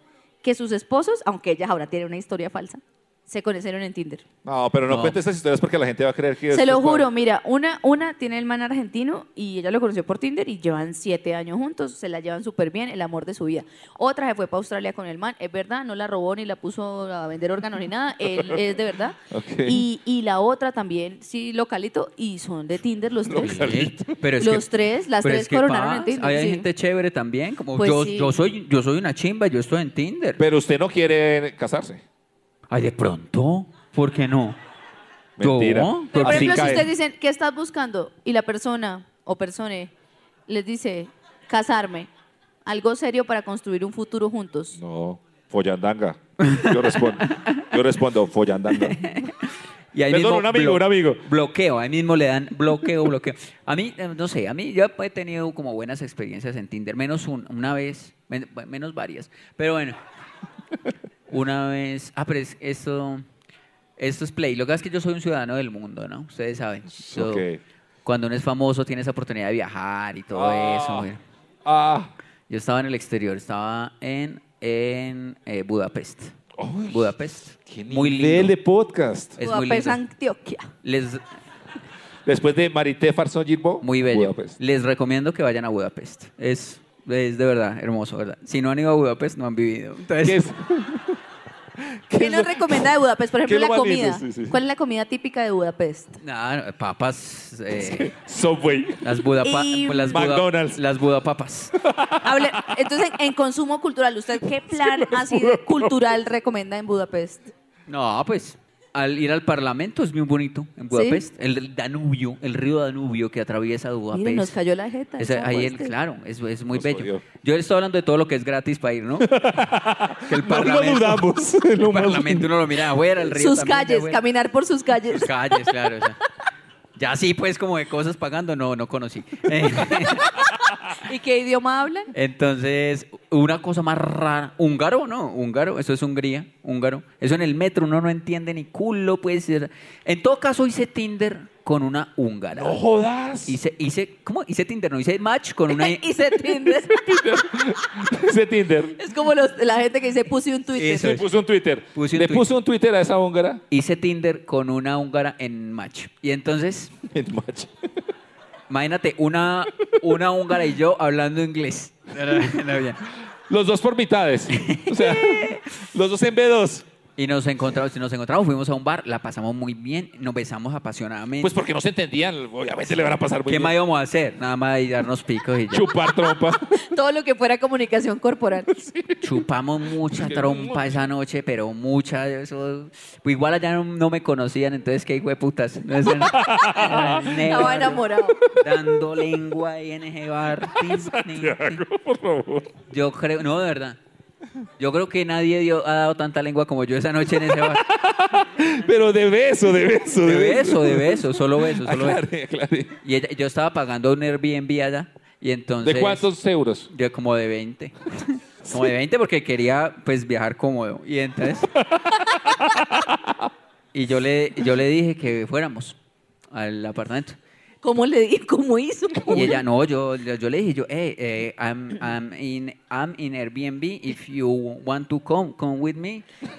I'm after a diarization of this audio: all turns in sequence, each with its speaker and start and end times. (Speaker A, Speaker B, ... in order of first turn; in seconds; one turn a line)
Speaker A: 0.4-4.2
Speaker B: 4.4-7.1
Speaker C: 4.9-5.2
Speaker A: 6.5-23.7
Speaker B: 19.3-19.8
Speaker B: 23.2-24.2
Speaker C: 23.4-24.7
Speaker A: 24.4-26.6
Speaker C: 25.2-30.4
Speaker A: 27.8-28.3
Speaker B: 30.4-32.0
Speaker C: 32.7-34.6
Speaker B: 35.4-36.9
Speaker C: 35.4-36.9
Speaker A: 36.1-39.9
Speaker A: 40.5-42.1
Speaker A: 42.6-44.8
Speaker B: 44.8-49.1
Speaker C: 46.4-47.6
Speaker C: 48.8-60.0
Speaker B: 50.1-51.2
Speaker C: 61.3-63.2
Speaker C: 64.0-67.4
Speaker B: 67.0-67.6
Speaker C: 68.0-71.2
Speaker B: 70.3-71.1
Speaker B: 71.6-72.1
Speaker C: 72.5-76.3
Speaker B: 76.6-77.0
Speaker C: 76.9-78.5
Speaker B: 77.7-79.4
Speaker C: 79.4-80.0
Speaker A: 79.4-80.7
Speaker C: 80.8-81.2
Speaker B: 82.2-84.5
Speaker C: 83.8-90.4
Speaker B: 90.2-91.2
Speaker B: 91.9-92.9
Speaker A: 92.2-96.2
Speaker B: 93.4-94.6
Speaker C: 96.2-98.1
Speaker B: 97.8-99.0
Speaker C: 99.0-101.7
Speaker A: 99.4-100.2
Speaker B: 100.1-100.8
Speaker B: 101.8-102.7
Speaker A: 102.2-107.5
Speaker B: 104.7-105.9
Speaker C: 107.9-114.5
Speaker A: 110.9-111.2
Speaker A: 114.1-115.9
Speaker C: 115.2-119.3
Speaker B: 116.7-117.2
Speaker B: 119.2-122.5
Speaker C: 120.3-121.2
Speaker C: 121.8-124.2
Speaker A: 123.2-125.7
Speaker C: 125.1-126.2
Speaker C: 127.0-130.4
Speaker A: 130.2-132.1
Speaker C: 132.1-142.8
Speaker B: 142.5-143.6
Speaker C: 143.5-146.0
Speaker A: 145.7-147.2
Speaker B: 146.9-149.0
Speaker A: 149.0-151.2
Speaker C: 150.8-151.3
Speaker B: 151.0-153.6
Speaker C: 151.9-152.5
Speaker C: 153.7-156.9
Speaker B: 157.1-157.9
Speaker C: 158.7-163.0
Speaker B: 163.5-166.8
Speaker C: 164.5-165.6
Speaker C: 167.2-171.5
Speaker B: 171.4-173.7
Speaker C: 173.4-175.9
Speaker B: 175.7-176.7
Speaker A: 176.2-178.7
Speaker B: 178.7-179.3
Speaker C: 179.2-191.8
Speaker B: 180.1-181.0
Speaker B: 186.2-187.4
Speaker A: 187.2-188.4
Speaker B: 190.7-192.7
Speaker C: 192.9-194.0
Speaker C: 194.8-197.8
Speaker B: 197.6-203.0
Speaker C: 200.2-202.2
Speaker C: 203.0-206.3
Speaker B: 205.8-206.9
Speaker C: 206.9-211.7
Speaker B: 211.8-213.2
Speaker C: 213.9-215.9
Speaker C: 216.5-217.4
Speaker A: 217.8-219.6
Speaker C: 219.3-226.2